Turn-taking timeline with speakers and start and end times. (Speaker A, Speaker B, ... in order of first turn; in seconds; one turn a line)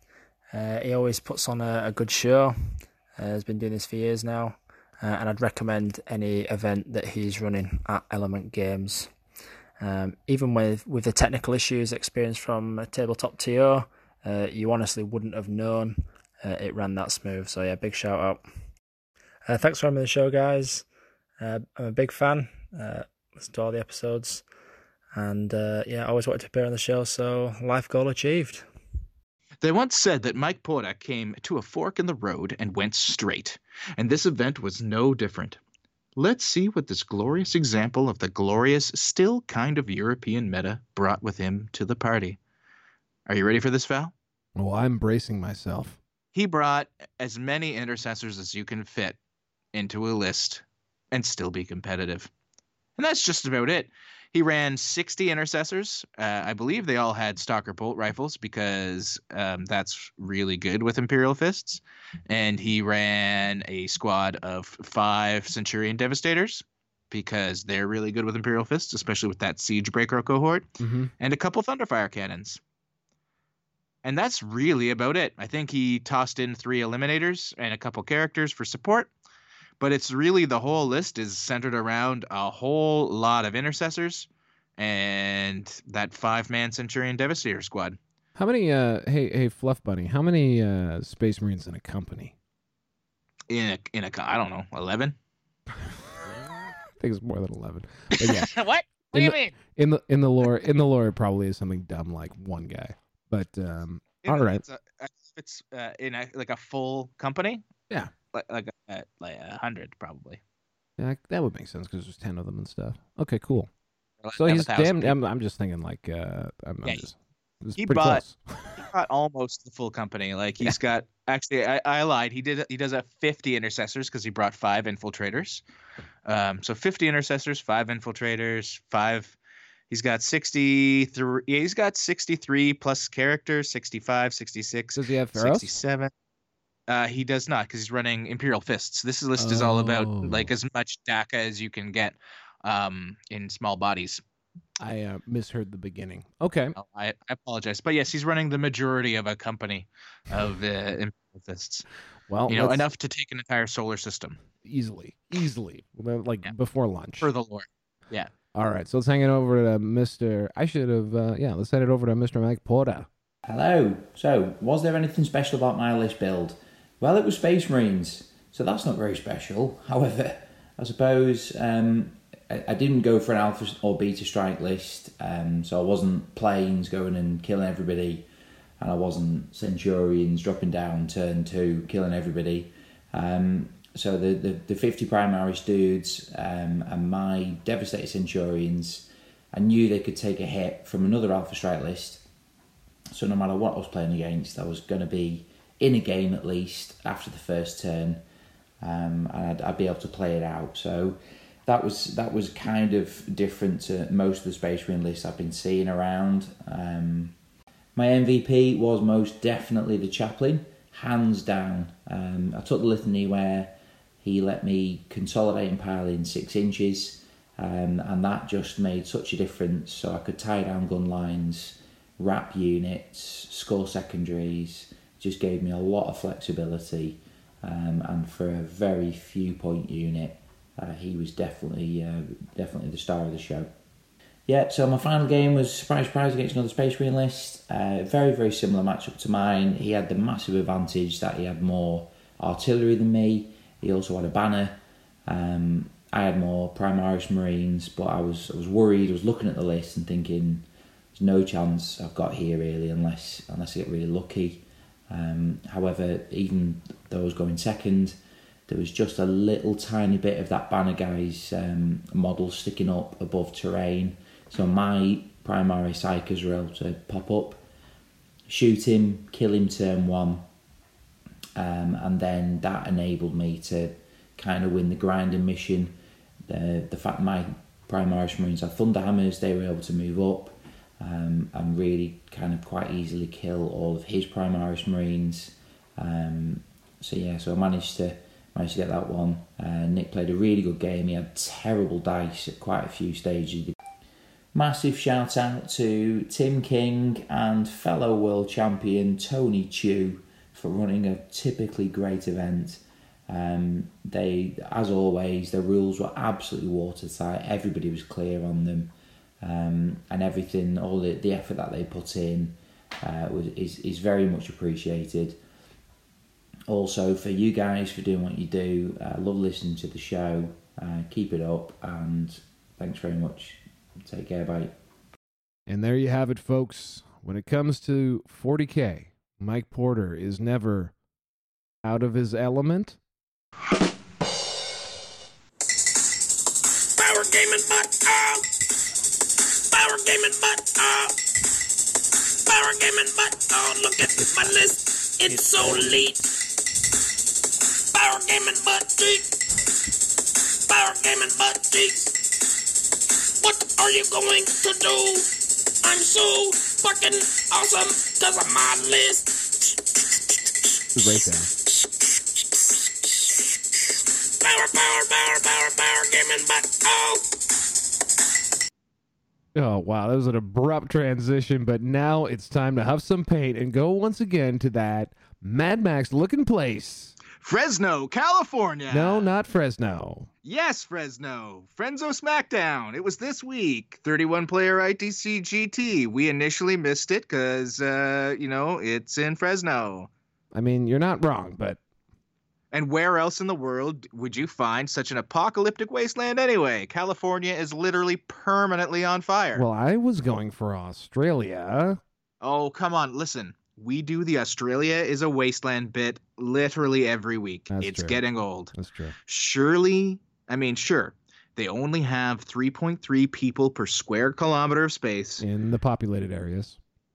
Speaker A: 0.5-9.1
Speaker A: 9.8-18.4
Speaker A: 19.5-20.9
Speaker A: 21.4-24.4
Speaker A: 25.2-28.7
Speaker B: 29.6-35.6
Speaker B: 36.2-42.4
Speaker B: 43.3-44.1
Speaker C: 44.6-46.0
Speaker B: 46.4-49.2
Speaker B: 49.7-52.3
Speaker B: 53.0-70.7
Speaker C: 70.8-71.1
Speaker B: 71.2-72.6
Speaker B: 74.0-79.1
Speaker B: 79.8-84.3
Speaker B: 84.8-88.0
Speaker C: 88.4-92.3
Speaker B: 93.5-95.2
Speaker C: 97.0-98.5
Speaker C: 99.1-104.6
Speaker B: 99.2-99.4
Speaker B: 104.2-107.6
Speaker B: 108.3-110.4
Speaker C: 111.0-113.7
Speaker B: 114.2-115.2
Speaker C: 114.4-118.8
Speaker B: 117.8-118.2
Speaker B: 118.8-125.6
Speaker B: 126.3-129.4
Speaker B: 129.9-136.1
Speaker C: 135.0-135.7
Speaker B: 136.9-144.2
Speaker C: 139.4-140.5
Speaker C: 144.8-146.8
Speaker B: 146.8-151.8
Speaker C: 152.3-152.8
Speaker B: 152.5-154.4
Speaker C: 154.6-157.3
Speaker B: 157.2-158.3
Speaker C: 158.6-163.1
Speaker D: 163.5-178.3
Speaker D: 178.8-192.2
Speaker D: 193.1-198.2
Speaker D: 198.8-207.4
Speaker D: 208.0-233.7
Speaker D: 234.5-250.7
Speaker D: 251.2-267.6
Speaker D: 268.5-270.4
Speaker D: 271.6-275.9
Speaker D: 276.5-293.8
Speaker D: 294.6-315.4
Speaker D: 316.7-324.7
Speaker C: 325.7-330.9
Speaker C: 331.8-333.0
Speaker E: 337.0-338.4
Speaker E: 339.7-341.1
Speaker E: 342.5-346.3
Speaker E: 347.9-349.3
Speaker E: 350.7-352.1
Speaker E: 353.4-359.4
Speaker C: 360.9-361.5
Speaker E: 364.4-367.2
Speaker C: 369.5-377.2
Speaker B: 377.4-379.3
Speaker C: 378.9-380.3
Speaker B: 380.4-390.1
Speaker C: 390.5-391.8
Speaker B: 392.7-399.6
Speaker C: 399.6-402.0
Speaker B: 402.4-408.7
Speaker C: 407.7-409.1
Speaker B: 409.3-415.4
Speaker C: 415.4-416.8